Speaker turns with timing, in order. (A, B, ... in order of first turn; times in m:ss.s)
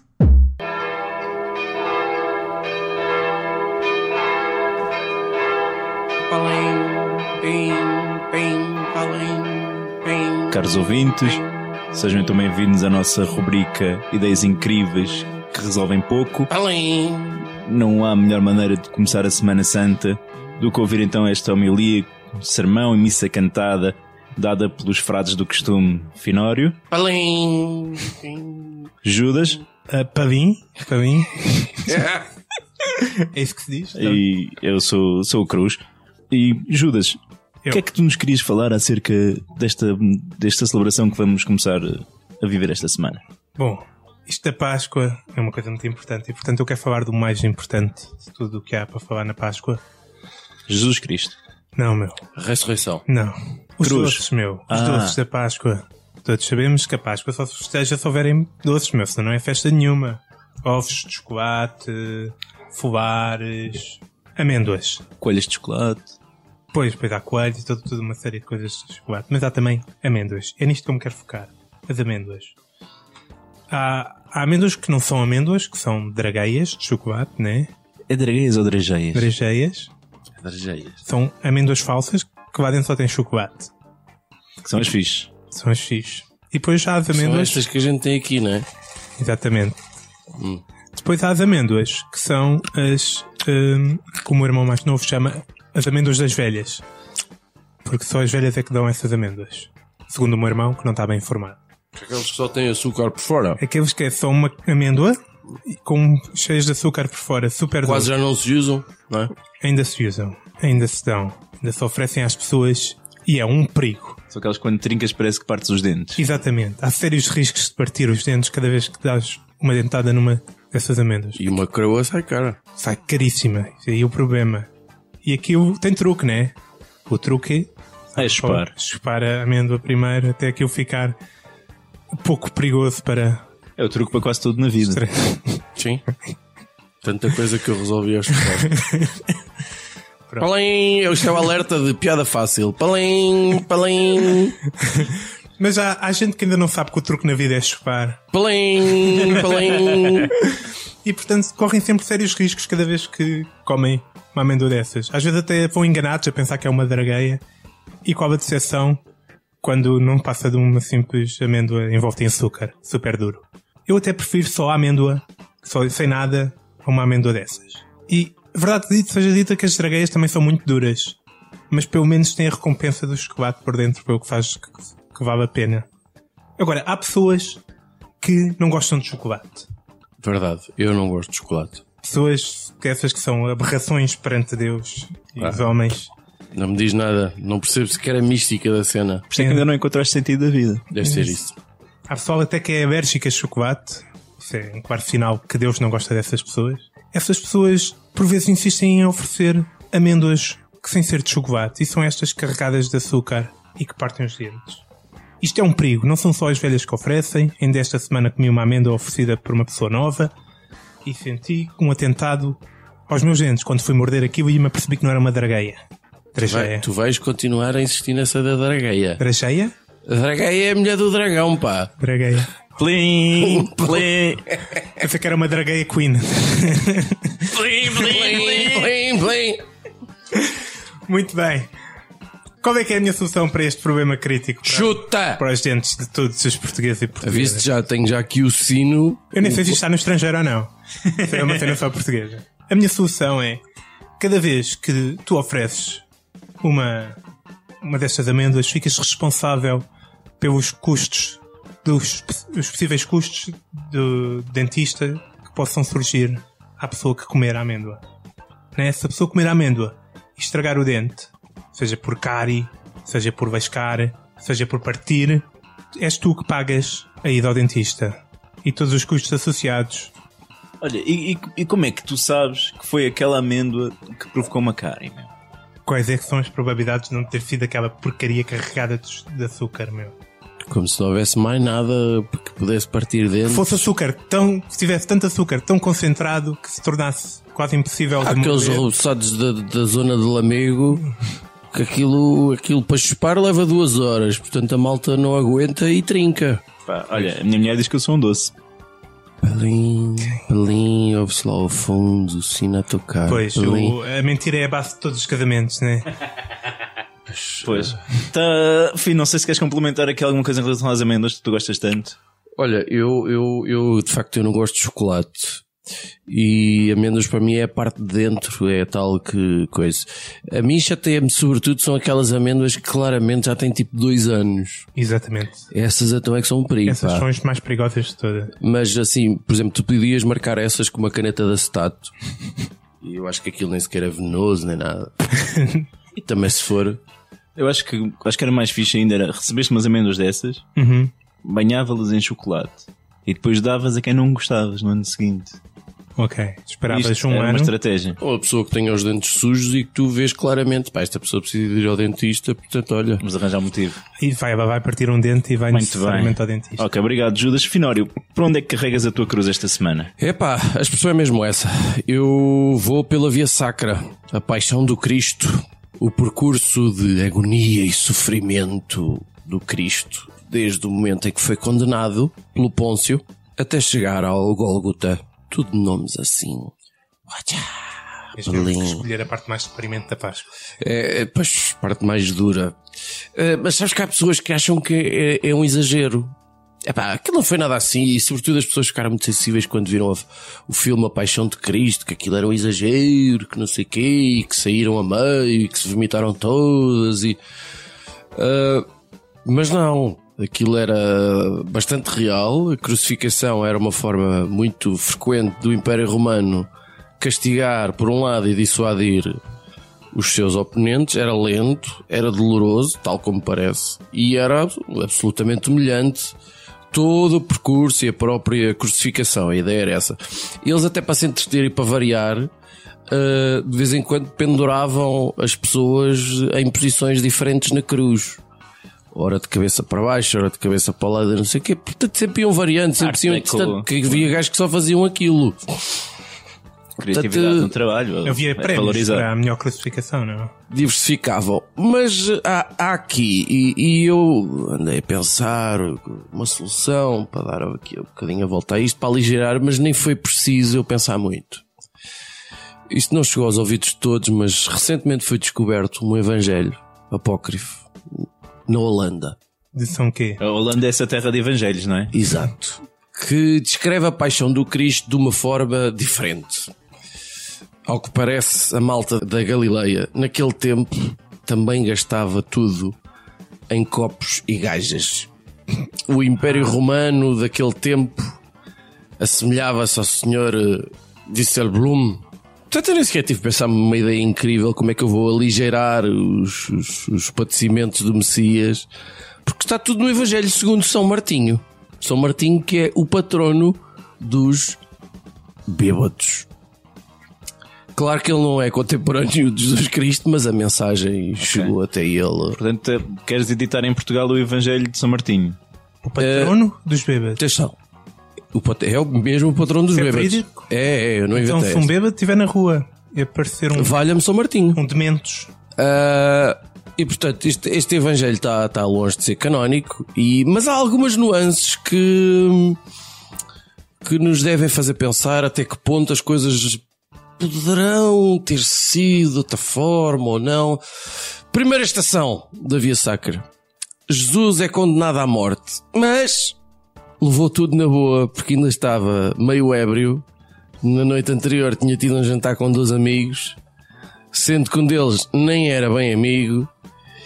0:06.3-0:12.0 A
0:10.5-0:11.4 B
0:11.9-0:16.5 B
0:16.5-0:17.6 A
0:17.6-0:26.8 B
0:26.9-0:28.9 A
0:29.0-0:29.6 B
0:29.9-0:32.0 C
0:31.9-0:32.2 A
0:33.0-0:34.2 C
0:34.0-0:37.2 B
0:37.7-0:43.2 B
0:43.6-0:49.8 C
0:50.7-0:51.4 B
0:51.7-0:52.2 C
0:52.4-0:53.0 A
0:53.1-1:05.0 C
0:53.8-0:55.2 B
1:05.2-1:06.1 B
1:06.7-1:12.6 C
1:13.7-1:17.7 C
1:18.1-1:19.3 B
1:19.1-1:19.9 C
1:20.4-1:21.0 A
1:21.0-1:23.7 C
1:24.6-1:25.3 B
1:25.5-1:27.6 C
1:27.1-1:28.6 A
1:29.2-1:29.8 C
1:30.4-1:30.6 A
1:30.9-1:36.8 C
1:37.8-1:41.6 C
1:42.0-1:43.6 A
1:43.6-1:48.1 C
1:47.8-1:49.3 A
1:49.6-1:54.2 C
1:54.3-1:56.2 B
1:56.2-2:01.4 C
2:01.3-2:02.6 A
2:02.8-2:04.7 C
2:05.2-2:06.5 C
2:07.1-2:11.2 C
2:08.2-2:08.7 B
2:12.2-2:13.4 C
2:13.8-2:15.0 B
2:14.8-2:15.6 C
2:15.8-2:16.0 A
2:17.0-2:18.7 A
2:18.6-2:19.2 C
2:20.4-2:24.6 A
2:24.8-2:28.2 C
2:28.3-2:30.3 A
2:31.0-2:37.4 C
2:38.0-2:39.0 C
2:39.6-2:51.2 C
2:51.7-2:55.9 C
2:56.6-2:57.6 C
2:58.2-2:59.7 C
3:00.2-3:01.8 A
3:02.0-3:06.1 C
3:06.5-3:09.2 A
3:09.3-3:10.9 B
3:09.4-3:09.6 C
3:10.9-3:11.6 A
3:11.0-3:11.4 C
3:12.1-3:24.8 C
3:25.4-3:30.3 C
3:31.0-3:35.8 C
3:36.3-3:36.8 C
3:36.4-3:39.2 A
3:39.2-3:39.7 C
3:40.0-3:41.9 A
3:42.0-3:42.5 C
3:42.8-3:44.5 B
3:43.4-3:44.8 A
3:45.0-3:48.9 C
3:47.5-3:49.6 A
3:51.1-3:51.7 C
3:52.6-3:57.7 C
3:54.6-3:55.4 A
3:57.2-3:59.8 A
3:59.3-4:03.6 C
4:01.1-4:01.8 B
4:04.2-4:06.0 C
4:06.6-4:07.2 C
4:07.8-4:09.8 C
4:10.4-4:18.0 C
4:18.7-4:30.1 C
4:30.8-4:35.3 B
4:35.8-4:40.1 C
4:40.7-4:43.9 A
4:43.5-4:48.9 C
4:48.2-4:51.1 A
4:51.7-4:56.6 A
4:56.8-4:58.5 B
4:59.4-5:04.0 A
5:03.3-5:06.1 C
5:07.3-5:08.0 A
5:07.6-5:12.2 B
5:12.6-5:15.6 A
5:16.3-5:24.9 A
5:24.9-5:25.7 C
5:25.7-5:27.2 A
5:26.8-5:28.5 C
5:28.6-5:32.1 A
5:33.0-5:35.1 A
5:35.3-5:35.8 C
5:36.2-5:37.0 A
5:37.6-5:40.6 B
5:40.8-5:41.1 C
5:41.4-5:45.6 B
5:46.2-5:47.7 C
5:46.9-5:48.2 B
5:48.2-5:53.2 A
5:53.2-5:54.0 B
5:54.2-5:56.8 C
5:55.7-6:00.1 B
6:00.2-6:16.7 A
6:17.3-6:19.0 A
6:18.4-6:20.5 C
6:20.8-6:22.8 A
6:23.3-6:26.3 A
6:26.8-6:37.4 A
6:38.3-6:38.8 A
6:39.4-6:49.4 A
6:50.1-6:56.4 A
6:56.9-7:02.5 A
7:03.1-7:08.4 A
7:09.1-7:16.0 A
7:13.0-7:14.3 B
7:17.0-7:19.3 B
7:17.1-7:17.7 A
7:18.2-7:20.5 C
7:20.7-7:31.6 A
7:32.9-7:39.4 A
7:39.7-7:40.4 C
7:40.4-7:42.1 B
7:42.1-7:46.7 A
7:47.8-7:53.0 A
7:53.7-7:55.3 A
7:56.1-7:58.3 A
7:59.2-8:08.9 A
8:09.4-8:14.8 A
8:15.7-8:16.5 A
8:17.9-8:22.6 A
8:21.4-8:21.7 B
8:22.5-8:25.6 B
8:26.0-8:27.4 C
8:26.2-8:26.6 A
8:27.4-8:27.8 A
8:28.5-8:31.9 A
8:29.9-8:30.7 C
8:31.3-8:34.0 C
8:33.7-8:34.8 A
8:34.7-8:35.5 C
8:35.8-8:42.8 A
8:44.0-8:46.8 A
8:47.4-8:50.8 A
8:51.5-8:53.4 A
8:54.1-8:56.6 A
8:57.2-9:00.2 A
9:00.8-9:03.6 A
9:04.3-9:06.7 A